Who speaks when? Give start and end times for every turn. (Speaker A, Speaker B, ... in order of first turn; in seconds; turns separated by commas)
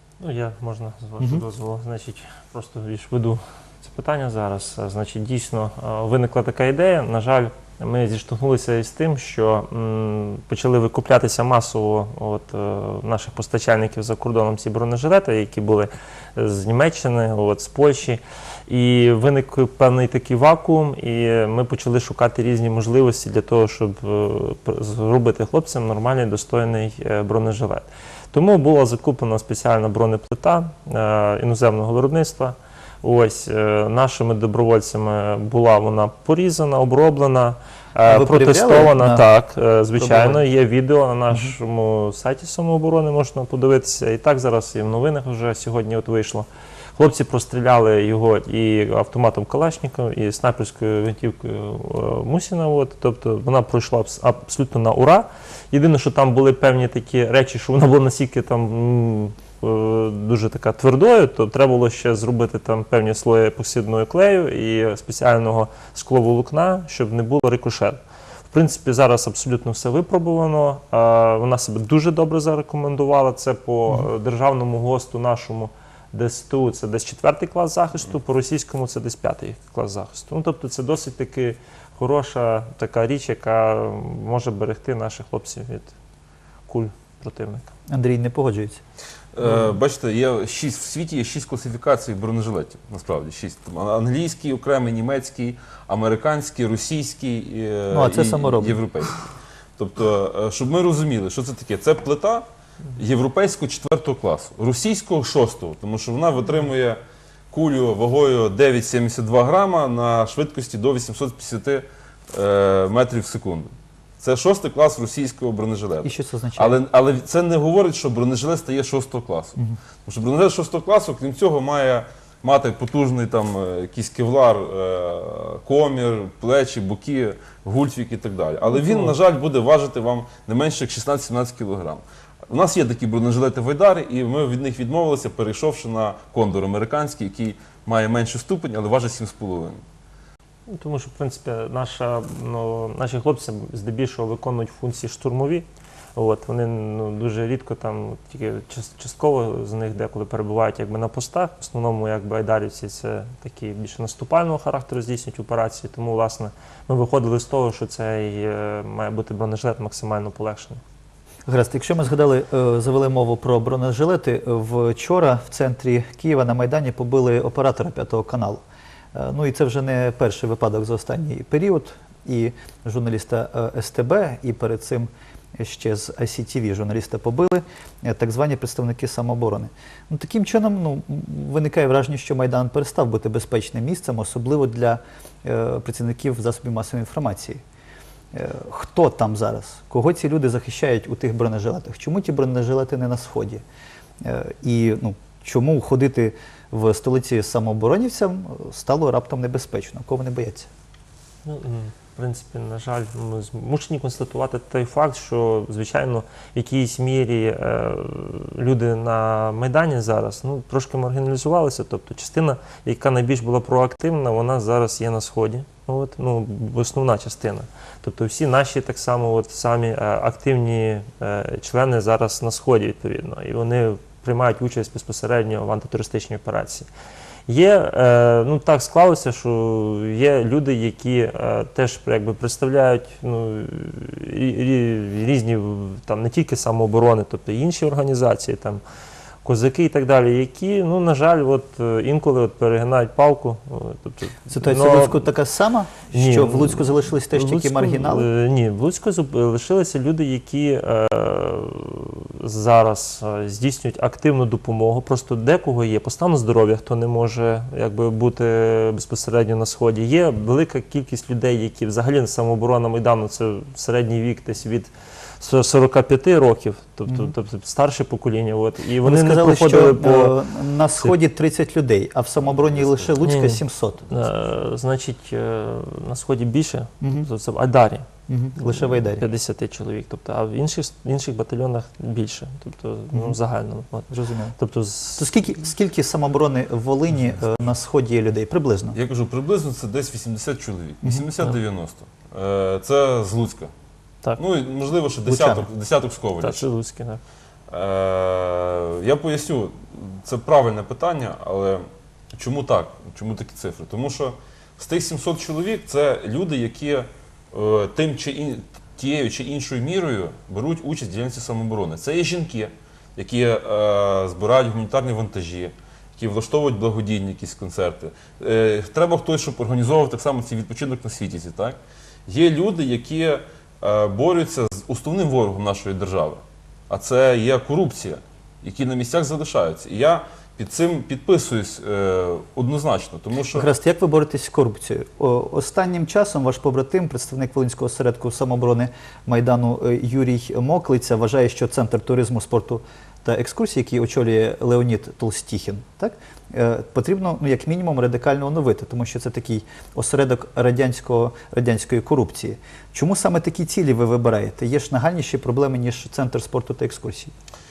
Speaker A: 0.2-46.5, Speaker B: 38.0-39.2, Speaker B: 40.0-40.4, Speaker A: 47.0-85.9, Speaker A: 86.7-87.7, Speaker B: 87.9-88.8, Speaker C: 89.3-99.2, Speaker B: 97.9-98.8, Speaker C: 99.8-107.0, Speaker C: 107.5-139.8, Speaker B: 116.0-116.8, Speaker A: 140.7-160.8, Speaker B: 161.4-168.6, Speaker B: 169.1-187.6, Speaker B: 188.3-193.6, Speaker B: 194.2-200.7, Speaker A: 201.4-226.9, Speaker A: 227.5-238.8, Speaker A: 239.4-245.3, Speaker B: 244.5-248.3, Speaker A: 246.1-270.4, Speaker B: 267.1-267.3, Speaker B: 269.0-274.1, Speaker A: 273.2-285.3, Speaker B: 277.0-277.3, Speaker B: 278.3-279.2, Speaker B: 283.1-283.4, Speaker B: 284.1-284.5, Speaker B: 285.2-289.0, Speaker C: 288.9-293.7, Speaker C: 294.4-296.7, Speaker B: 295.2-295.7, Speaker A: 296.4-297.2, Speaker C: 297.7-301.8, Speaker C: 302.4-333.7, Speaker B: 333.5-357.3